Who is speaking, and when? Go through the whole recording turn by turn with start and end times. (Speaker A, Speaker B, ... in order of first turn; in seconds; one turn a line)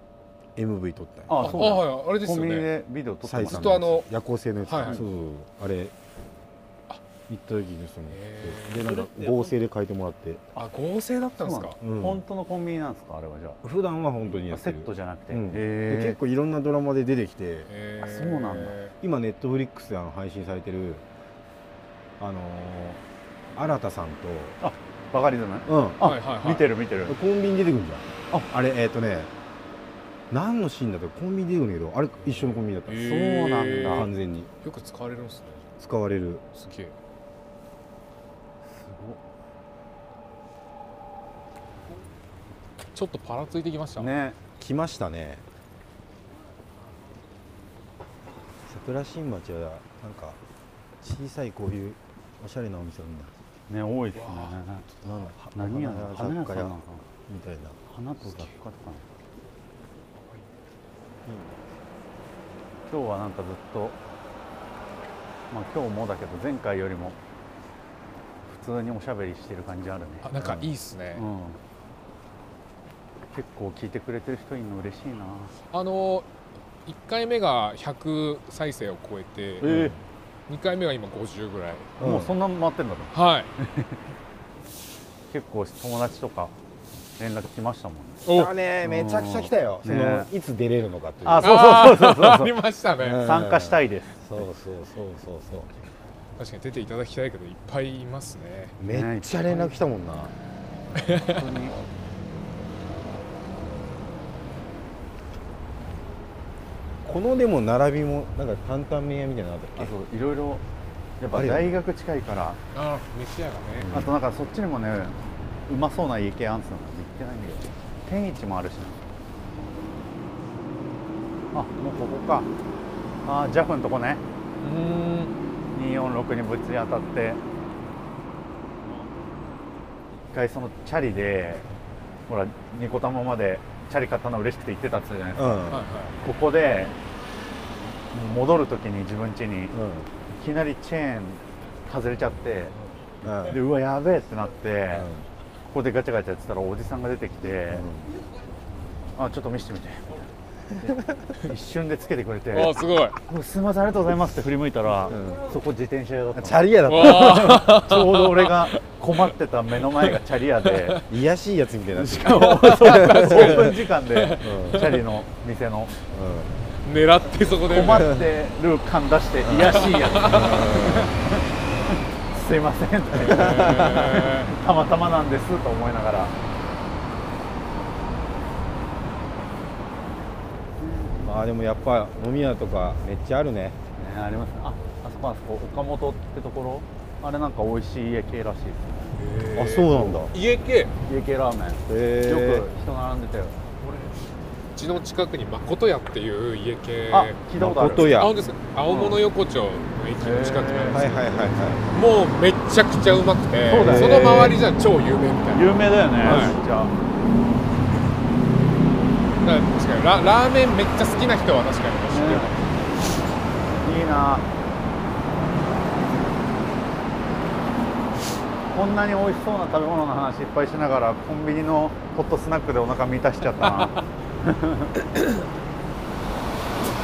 Speaker A: 0.6-1.8
Speaker B: 1.3-3.9
Speaker C: 1.4-2.7
Speaker A: 3.3-5.9
Speaker C: 3.4-4.1
Speaker C: 4.7-5.0
Speaker B: 4.8-5.1
Speaker A: 7.3-10.4
Speaker C: 8.1-9.3
Speaker C: 10.6-11.8
Speaker B: 11.4-13.6
Speaker A: 11.8-12.2
Speaker A: 13.6-17.7
Speaker B: 14.5-16.2
Speaker C: 17.7-18.9
Speaker B: 18.0-18.8
Speaker A: 19.0-21.1
Speaker A: 22.2-23.0
Speaker A: 23.6-24.6
Speaker B: 24.6-27.2
Speaker A: 25.7-26.1
Speaker C: 26.0-26.7
Speaker A: 27.1-29.3
Speaker A: 30.3-33.2
Speaker C: 32.9-34.1
Speaker B: 32.9-34.1
Speaker A: 33.9-34.5
Speaker C: 34.6-35.7
Speaker A: 35.8-36.5
Speaker C: 36.5-36.9
Speaker B: 38.6-39.2
Speaker C: 42.9-44.1
Speaker B: 44.0-44.4
Speaker A: 44.6-45.4
Speaker A: 48.7-50.4
Speaker A: 51.0-53.3
Speaker B: 53.7-54.9
Speaker C: 54.1-55.3
Speaker A: 55.0-57.8
Speaker B: 55.5-57.0
Speaker B: 57.9-59.1
Speaker A: 61.3-61.6
Speaker B: 62.9-64.0
Speaker B: 65.5-67.2
Speaker B: 68.5-70.3
Speaker C: 70.2-71.3
Speaker A: 70.4-70.7
Speaker B: 71.2-71.6
Speaker B: 73.3-75.5
Speaker C: 75.7-76.3
Speaker C: 76.9-79.9
Speaker B: 79.6-80.0
Speaker A: 79.7-80.0
Speaker C: 80.5-81.9
Speaker B: 82.0-84.0
Speaker A: 82.0-82.4
Speaker C: 83.1-83.5
Speaker B: 85.3-86.5
Speaker B: 87.2-88.3
Speaker C: 88.3-88.5
Speaker A: 88.3-91.5
Speaker B: 88.8-90.3
Speaker B: 91.2-92.6
Speaker C: 91.4-93.3
Speaker A: 93.0-95.7
Speaker B: 93.2-94.2
Speaker C: 96.4-98.8
Speaker A: 98.8-100.3
Speaker B: 98.9-99.8
Speaker C: 101.0-101.5
Speaker B: 101.1-101.8
Speaker A: 107.0-109.9
Speaker B: 109.8-110.6
Speaker B: 111.2-112.6
Speaker A: 111.3-111.8
Speaker C: 112.7-113.9
Speaker A: 113.8-114.1
Speaker B: 113.9-115.2
Speaker B: 115.7-119.0
Speaker B: 121.5-122.5
Speaker B: 123.2-124.2
Speaker C: 124.6-125.3
Speaker B: 125.7-127.4
Speaker B: 130.3-131.7
Speaker B: 132.3-136.9
Speaker A: 135.4-135.9
Speaker C: 135.7-136.2
Speaker B: 138.1-139.8
Speaker A: 139.7-140.1
Speaker B: 140.3-142.8
Speaker A: 143.2-143.6
Speaker B: 143.5-145.1
Speaker A: 144.9-145.3
Speaker B: 145.7-147.9
Speaker A: 147.7-148.1
Speaker B: 149.2-161.0
Speaker A: 150.9-151.3
Speaker C: 152.5-153.2
Speaker A: 155.1-155.4
Speaker A: 156.4-157.6
Speaker C: 156.9-158.8
Speaker C: 159.9-161.0
Speaker A: 161.1-163.8
Speaker B: 161.9-165.9
Speaker C: 162.5-165.1
Speaker A: 164.4-164.9
Speaker A: 166.1-166.6
Speaker C: 166.8-168.2
Speaker B: 167.7-176.3
Speaker A: 169.4-171.1
Speaker C: 169.7-170.7
Speaker C: 173.1-174.5
Speaker A: 173.2-174.1
Speaker B: 180.8-181.3
Speaker A: 181.2-183.8
Speaker B: 184.0-189.2
Speaker C: 189.2-190.9
Speaker A: 189.6-190.3
Speaker B: 191.1-193.6
Speaker A: 191.9-192.7
Speaker C: 193.8-194.2
Speaker C: 194.8-197.4
Speaker B: 197.1-198.1
Speaker A: 197.6-198.4
Speaker C: 198.0-201.3
Speaker B: 198.9-199.2
Speaker B: 200.2-201.5
Speaker A: 200.9-201.9
Speaker C: 201.9-206.6
Speaker B: 203.7-204.6
Speaker A: 203.8-204.5
Speaker B: 205.5-206.9
Speaker A: 206.2-206.6
Speaker C: 209.4-212.7
Speaker B: 212.1-212.7
Speaker B: 213.8-214.5
Speaker B: 218.7-224.9
Speaker C: 223.6-224.0